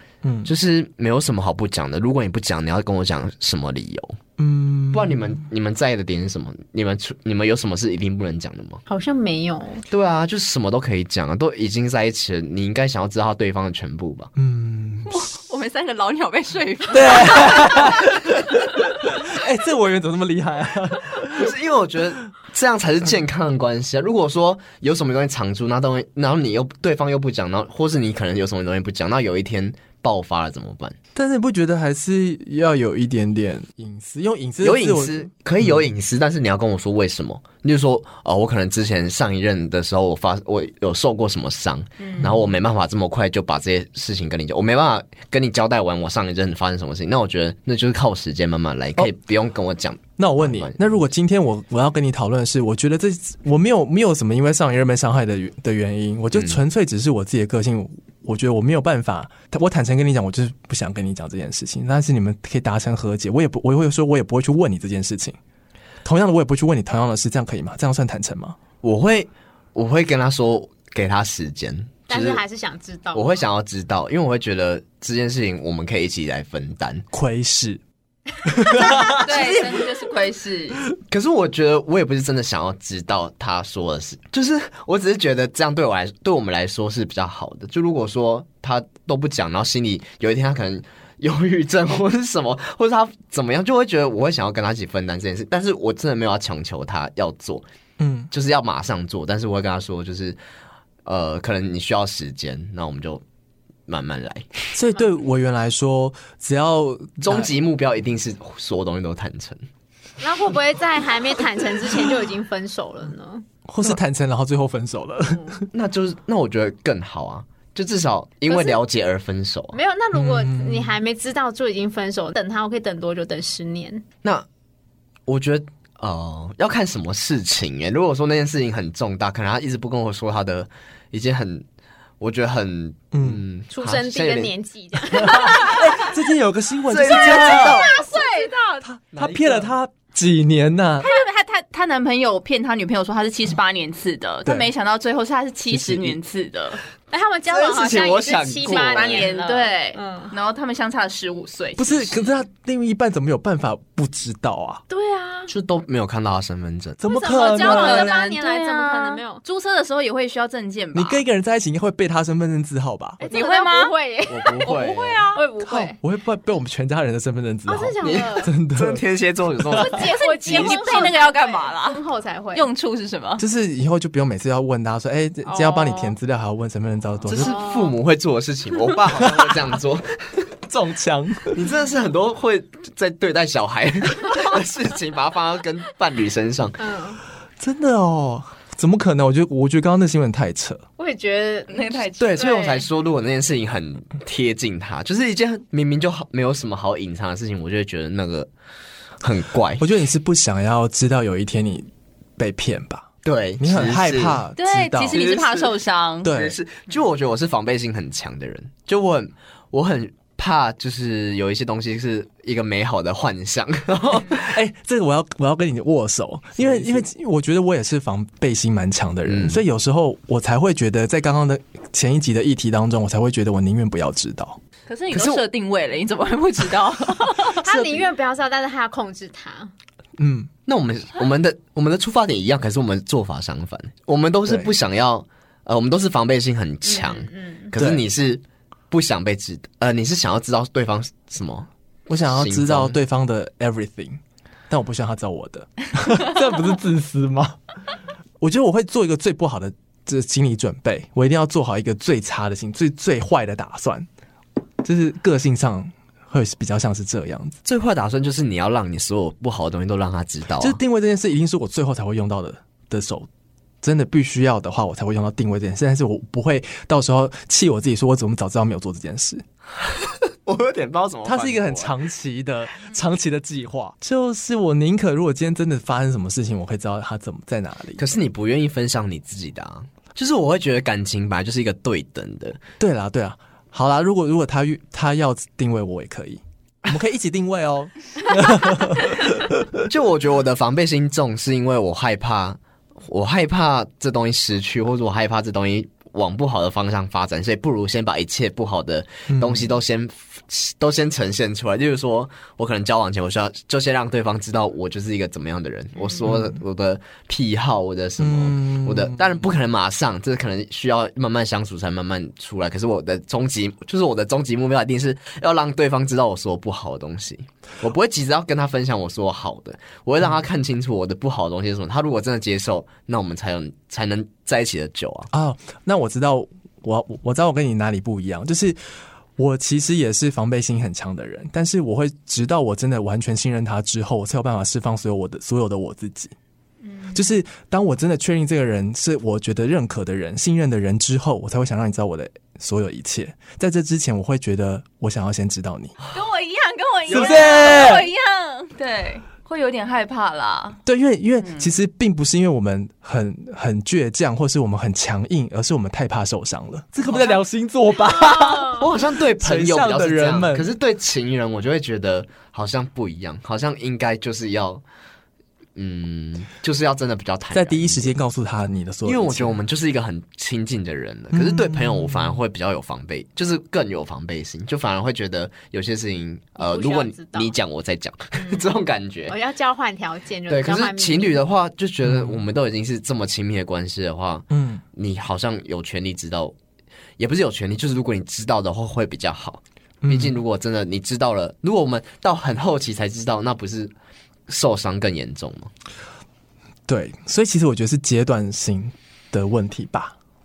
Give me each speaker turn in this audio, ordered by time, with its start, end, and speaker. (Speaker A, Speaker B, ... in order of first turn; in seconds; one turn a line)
Speaker A: 0.2-0.5
Speaker B: 0.4-4.2
Speaker A: 4.4-5.4
Speaker B: 4.9-8.8
Speaker C: 8.9-9.8
Speaker B: 9.9-14.3
Speaker A: 14.4-15.2
Speaker D: 15.1-18.0
Speaker A: 16.9-21.5
Speaker B: 21.4-31.0
Speaker A: 31.1-35.8
Speaker B: 34.6-51.0
Speaker C: 42.0-42.3
Speaker A: 50.2-65.4
Speaker B: 56.3-56.6
Speaker A: 66.0-68.6
Speaker B: 68.8-72.4
Speaker C: 72.1-73.4
Speaker B: 73.1-77.1
Speaker A: 77.1-77.8
Speaker A: 78.4-79.4
Speaker D: 79.2-80.8
Speaker B: 79.3-79.6
Speaker B: 81.1-97.7
Speaker A: 98.0-98.3
Speaker B: 98.3-100.4
Speaker B: 101.0-103.2
Speaker B: 103.9-104.5
Speaker A: 104.8-107.5
Speaker B: 107.2-109.6
Speaker C: 110.2-113.4
Speaker A: 113.7-115.6
Speaker B: 115.7-119.8
Speaker C: 118.5-118.8
Speaker C: 119.7-124.0
Speaker A: 120.1-121.0
Speaker B: 125.3-131.7
Speaker B: 132.2-134.5
Speaker A: 133.1-133.4
Speaker C: 133.7-135.8
Speaker A: 135.2-137.9
Speaker B: 136.9-138.0
Speaker C: 137.2-138.8
Speaker D: 137.6-138.7
Speaker A: 138.8-141.1
Speaker B: 139.1-139.7
Speaker D: 141.0-146.8
Speaker A: 144.4-144.7
Speaker A: 145.7-146.2
Speaker C: 147.1-150.3
Speaker B: 147.4-149.3
Speaker D: 148.6-152.3
Speaker A: 151.8-154.8
Speaker C: 154.9-155.5
Speaker B: 155.5-157.0
Speaker A: 157.0-158.1
Speaker C: 157.0-159.4
Speaker D: 157.5-161.2
Speaker A: 160.9-163.2
Speaker C: 163.2-164.7
Speaker D: 163.2-163.9
Speaker B: 164.3-165.2
Speaker D: 164.5-165.4
Speaker C: 165.3-166.0
Speaker A: 165.7-169.0
Speaker C: 167.7-168.5
Speaker B: 168.0-171.1
Speaker A: 169.7-170.1
Speaker D: 169.7-172.0
Speaker C: 170.0-172.7
Speaker D: 172.5-173.4
Speaker A: 173.4-177.6
Speaker C: 175.4-176.2
Speaker B: 177.2-180.1
Speaker C: 177.3-177.9
Speaker A: 179.1-179.6
Speaker A: 180.7-181.6
Speaker B: 181.5-186.8
Speaker C: 186.8-187.2
Speaker A: 187.6-190.8
Speaker C: 191.0-191.8
Speaker D: 191.7-192.5
Speaker B: 192.2-198.5
Speaker C: 192.4-192.8
Speaker B: 199.2-199.8
Speaker A: 199.8-203.1
Speaker B: 203.2-204.4
Speaker A: 203.6-205.2
Speaker D: 204.6-206.3
Speaker B: 205.1-205.7
Speaker A: 206.2-206.6
Speaker B: 206.3-214.5
Speaker A: 214.4-224.6
Speaker B: 216.6-217.1
Speaker B: 219.3-219.6
Speaker D: 224.9-227.6
Speaker B: 225.1-225.4
Speaker C: 227.6-229.7
Speaker B: 227.7-228.1
Speaker A: 230.2-230.5
Speaker B: 230.7-241.7
Speaker C: 236.8-237.7
Speaker A: 237.7-238.0
Speaker A: 242.1-247.6
Speaker B: 242.2-243.0
Speaker A: 248.4-254.1
Speaker A: 254.8-257.6
Speaker B: 257.6-260.8
Speaker A: 260.6-263.3
Speaker A: 263.8-269.4
Speaker B: 269.8-271.9
Speaker A: 271.2-278.0
Speaker B: 278.0-282.6
Speaker A: 282.8-289.8
Speaker B: 289.9-325.3
Speaker A: 299.3-299.7
Speaker C: 305.9-306.2
Speaker A: 306.2-306.6
Speaker A: 308.2-309.4
Speaker A: 325.3-328.8
Speaker A: 329.4-336.3
Speaker C: 336.8-337.2
Speaker A: 337.1-345.9
Speaker D: 346.1-350.8
Speaker A: 347.1-348.1
Speaker B: 347.2-347.7
Speaker A: 350.8-360.7
Speaker D: 351.4-351.7
Speaker B: 357.1-357.4
Speaker C: 358.1-358.7
Speaker B: 358.7-364.8
Speaker B: 365.8-368.1
Speaker A: 367.5-369.6
Speaker B: 369.0-379.3
Speaker A: 371.3-372.4
Speaker C: 376.6-377.6
Speaker C: 378.3-378.7
Speaker C: 379.3-381.4
Speaker B: 380.5-386.5
Speaker A: 382.0-382.4
Speaker A: 384.5-384.8
Speaker B: 387.2-393.9
Speaker A: 390.0-390.3
Speaker B: 394.5-395.7
Speaker A: 396.9-400.1